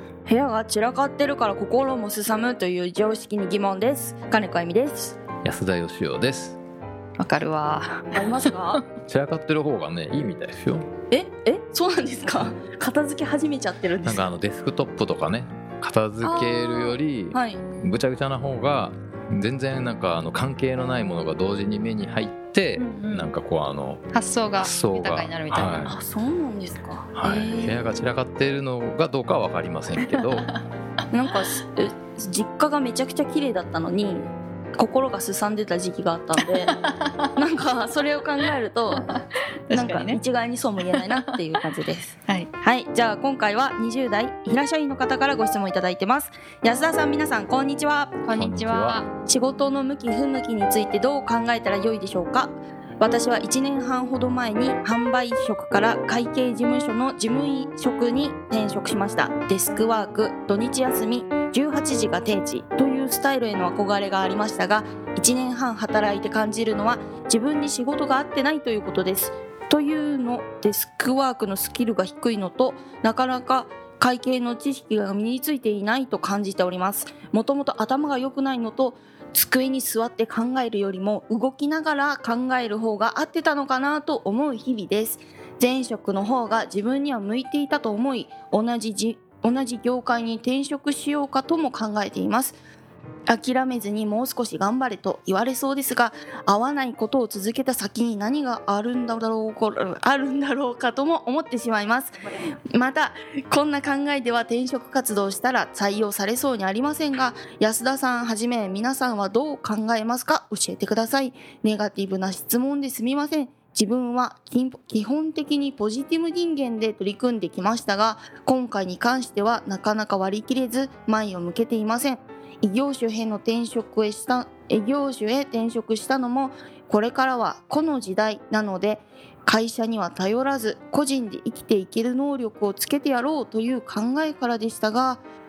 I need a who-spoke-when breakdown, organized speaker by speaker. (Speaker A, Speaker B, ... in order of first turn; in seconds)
Speaker A: 0.3-5.2, 8.1-8.8, 11.1-14.2, 16.2-17.6, 25.9-27.9, 31.1-36.7, 37.4-39.2, 39.7-48.2, 49.3-92.6, 93.3-102.2, 102.7-135.2
Speaker B: 5.4-6.6, 9.1-10.9, 14.0-24.0, 24.6-25.9, 27.1-30.5, 48.3-49.0
Speaker C: 7.2-8.8, 22.8-23.3, 24.1-25.9, 30.1-30.6, 36.5-37.3, 39.0-40.2, 40.9-41.2, 48.2-49.1